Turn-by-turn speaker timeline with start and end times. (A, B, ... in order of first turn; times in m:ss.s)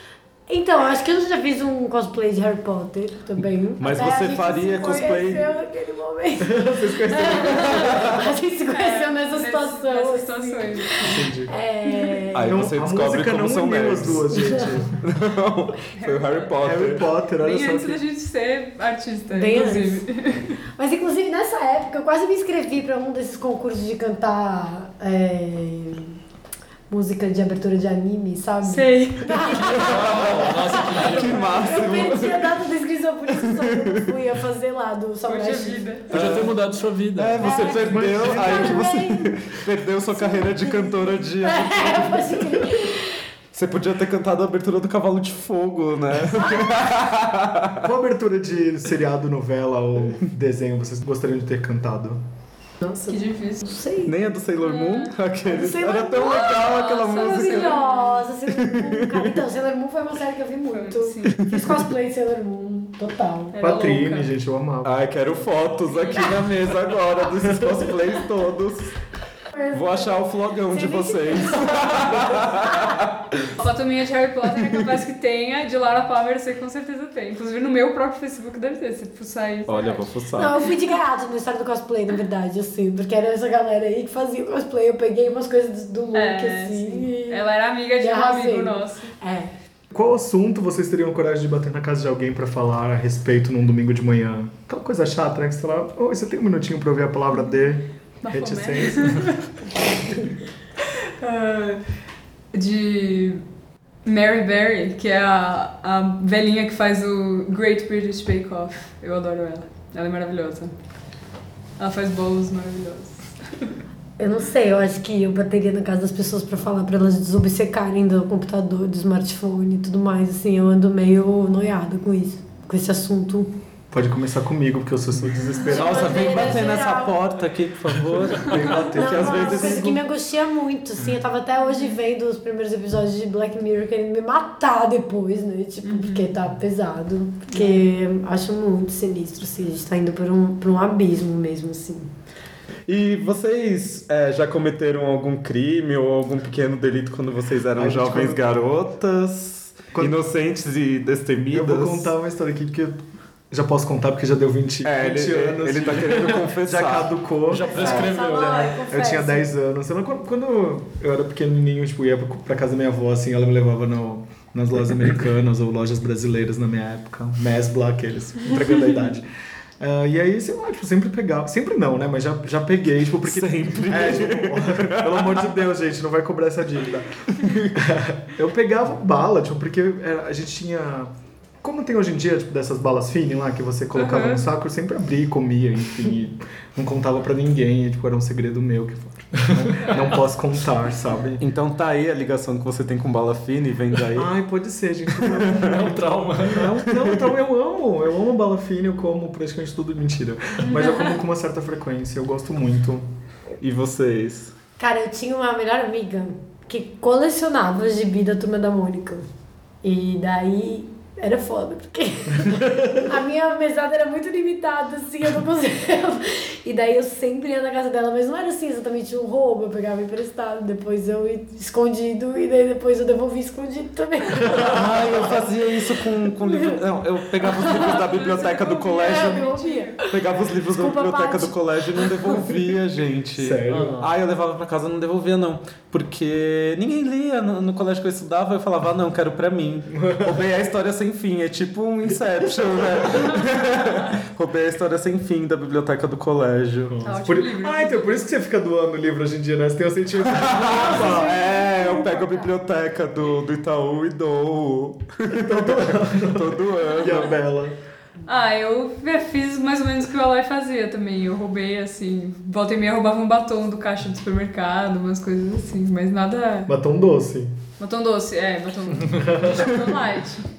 0:00.5-0:12.7 A
0:03.8-0:05.5 B
0:06.4-0:08.2 C
0:07.3-0:08.1 B
0:08.7-0:11.2 D
0:11.0-0:11.5 C
0:12.3-0:17.1 B
0:12.4-0:14.9 C
0:14.3-0:14.6 A
0:15.9-0:16.6 D
0:16.6-0:18.0 C
0:17.4-0:20.6 D
0:19.3-0:20.0 A
0:20.8-0:26.2 A
0:26.9-0:35.8 A
0:28.6-0:29.9 D
0:29.6-0:32.6 B
0:29.8-0:31.6 E
0:33.3-0:34.0 B
0:35.3-0:36.1 D
0:36.1-0:37.5 E
0:36.1-0:36.5 B
0:37.1-0:42.4 B
0:37.4-0:37.8 D
0:37.4-0:39.4 A
0:37.9-0:38.9 C
0:40.1-0:43.2 A
0:43.5-0:47.8 B
0:47.8-0:52.2 C
0:52.8-0:54.1 A
0:53.1-0:53.7 D
0:54.0-0:57.8 B
0:54.6-0:55.2 D
0:55.4-1:03.6 A
0:56.2-0:58.2 D
0:58.5-0:59.4 B
1:00.7-1:01.4 D
1:03.5-1:04.3 D
1:03.6-1:04.9 C
1:04.8-1:09.0 B
1:05.8-1:06.5 D
1:09.5-1:13.0 A
1:09.7-1:13.4 B
1:13.5-1:20.1 D
1:19.7-1:20.6 B
1:20.4-1:27.4 A
1:26.1-1:29.1 D
1:28.0-1:29.5 A
1:29.9-1:39.3 C
1:38.2-1:39.5 D
1:41.2-1:41.8 D
1:42.5-1:43.4 D
1:44.0-1:50.7 D
1:51.8-1:53.7 D
1:54.2-2:03.5 A
2:03.9-2:06.5 C
2:05.7-2:07.2 A
2:05.7-2:10.0 B
2:08.3-2:10.0 C
2:08.9-2:22.1 A
2:15.8-2:16.3 D
2:17.5-2:17.8 D
2:22.9-2:32.1 B
2:27.7-2:28.4 C
2:31.5-2:38.3 C
2:34.8-2:37.2 B
2:37.5-2:38.8 E
2:37.7-2:39.4 A
2:38.9-2:49.3 C
2:49.8-3:11.4 C
2:53.2-2:55.4 B
2:57.4-2:57.7 B
3:03.9-3:04.4 D
3:11.4-3:14.3 B
3:14.1-3:23.0 C
3:15.2-3:15.9 B
3:15.6-3:16.7 E
3:16.5-3:17.3 B
3:20.6-3:21.1 D
3:23.6-3:24.5 B
3:24.8-3:29.2 A
3:29.8-3:44.8 A
3:44.5-3:49.4 B
3:46.4-3:46.7 A
3:47.4-3:48.0 A
3:47.6-3:50.0 D
3:49.0-3:50.1 A
3:50.0-4:07.0 B
3:50.7-3:52.3 A
3:53.4-3:54.0 C
3:53.7-3:54.1 E
3:59.9-4:00.4 C
4:06.9-4:11.4 C
4:07.0-4:08.3 D
4:10.3-4:17.3 B
4:10.7-4:12.2 D
4:11.6-4:11.9 A
4:15.3-4:17.8 C
4:18.2-4:26.7 D
4:26.7-4:27.5 C
4:27.8-4:30.5 D
4:29.1-4:29.7 C